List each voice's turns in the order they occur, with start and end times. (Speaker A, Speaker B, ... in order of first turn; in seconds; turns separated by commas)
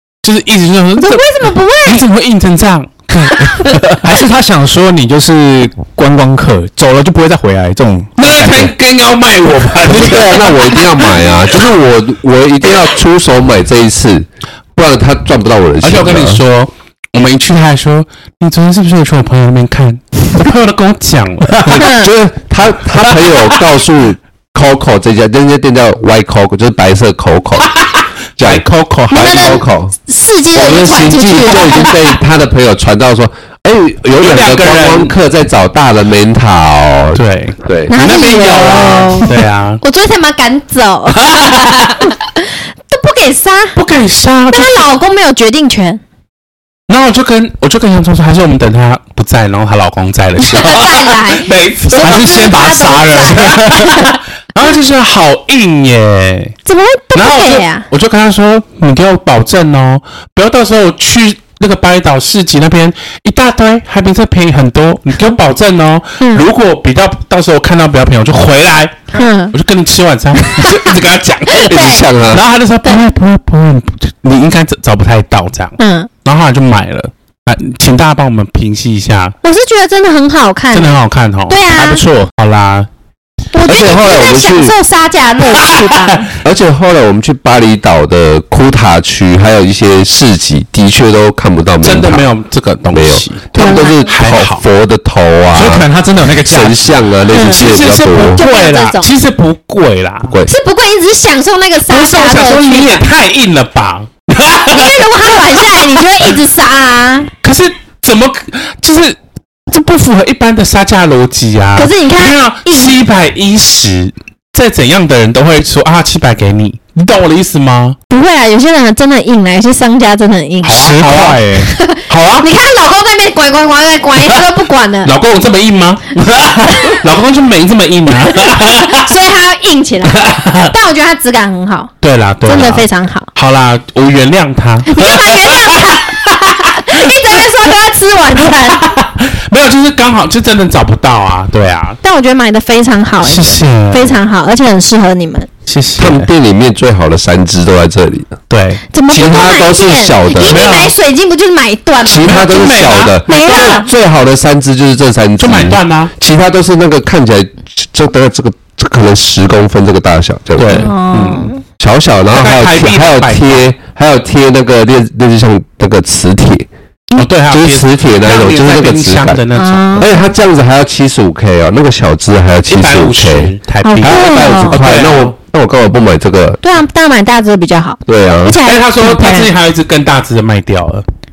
Speaker A: 0.2-4.0, Speaker B: 1.0-2.0, Speaker B: 3.5-3.8, Speaker C: 4.0-8.7, Speaker A: 8.2-11.1, Speaker D: 9.9-16.4, Speaker A: 15.8-21.9, Speaker D: 21.6-27.7, Speaker B: 21.6-22.1, Speaker A: 22.9-23.4, Speaker A: 27.8-29.6, Speaker D: 28.4-29.9, Speaker B: 29.1-32.0, Speaker D: 30.5-38.0, Speaker A: 34.2-35.1, Speaker A: 37.1-39.8, Speaker B: 37.9-43.8, Speaker A: 41.2-42.1, Speaker A: 43.8-44.9, Speaker B: 44.5-46.0, Speaker A: 46.9-52.4, Speaker B: 50.4-54.2, Speaker C: 52.0-54.1, Speaker A: 53.3-56.5, Speaker B: 56.6-57.8, Speaker A: 57.1-79.3, Speaker B: 66.2-66.4, Speaker B: 69.1-69.5, Speaker B: 70.5-70.9, Speaker B: 71.5-72.0, Speaker D: 71.7-72.4, Speaker B: 75.8-76.1, Speaker B: 79.4-81.0, Speaker A: 80.7-82.9, Speaker B: 81.5-82.0, Speaker B: 83.5-86.3, Speaker D: 83.6-84.7, Speaker A: 85.5-86.3, Speaker D: 86.4-92.2, Speaker A: 91.8-94.6, Speaker D: 92.9-95.8, Speaker B: 93.5-94.1, Speaker C: 95.5-97.0, Speaker D: 96.4-98.4, Speaker A: 97.3-100.3, Speaker B: 97.3-97.7, Speaker B: 98.3-99.1, Speaker B: 100.5-103.0, Speaker A: 101.9-106.4, Speaker B: 104.7-107.3, Speaker A: 107.4-109.2, Speaker A: 109.7-118.0, Speaker B: 111.8-113.0, Speaker B: 118.1-125.1, Speaker C: 120.6-122.4, Speaker A: 120.8-121.4, Speaker A: 122.1-122.5, Speaker A: 124.2-124.4, Speaker A: 125.0-129.1, Speaker B: 126.7-127.0, Speaker B: 128.5-131.9, Speaker A: 130.0-130.7, Speaker A: 132.0-137.5, Speaker B: 132.4-133.3, Speaker B: 134.8-138.9, Speaker A: 138.4-142.0, Speaker B: 142.0-145.5, Speaker A: 143.2-144.2, Speaker A: 145.7-146.3, Speaker D: 146.0-148.3, Speaker A: 148.5-148.8, Speaker B: 148.9-152.4, Speaker D: 149.1-150.7, Speaker A: 150.5-150.9, Speaker D: 152.0-160.9, Speaker A: 152.2-153.8, Speaker B: 153.3-153.9, Speaker A: 155.4-156.1, Speaker A: 160.6-161.5, Speaker B: 160.7-161.6, Speaker D: 161.8-166.7, Speaker A: 162.3-163.7, Speaker A: 167.1-170.1, Speaker D: 167.5-169.4, Speaker B: 169.5-170.1, Speaker D: 170.0-176.6, Speaker A: 172.7-175.3, Speaker B: 173.8-174.8, Speaker B: 176.6-179.5, Speaker D: 178.1-178.6, Speaker A: 178.6-181.0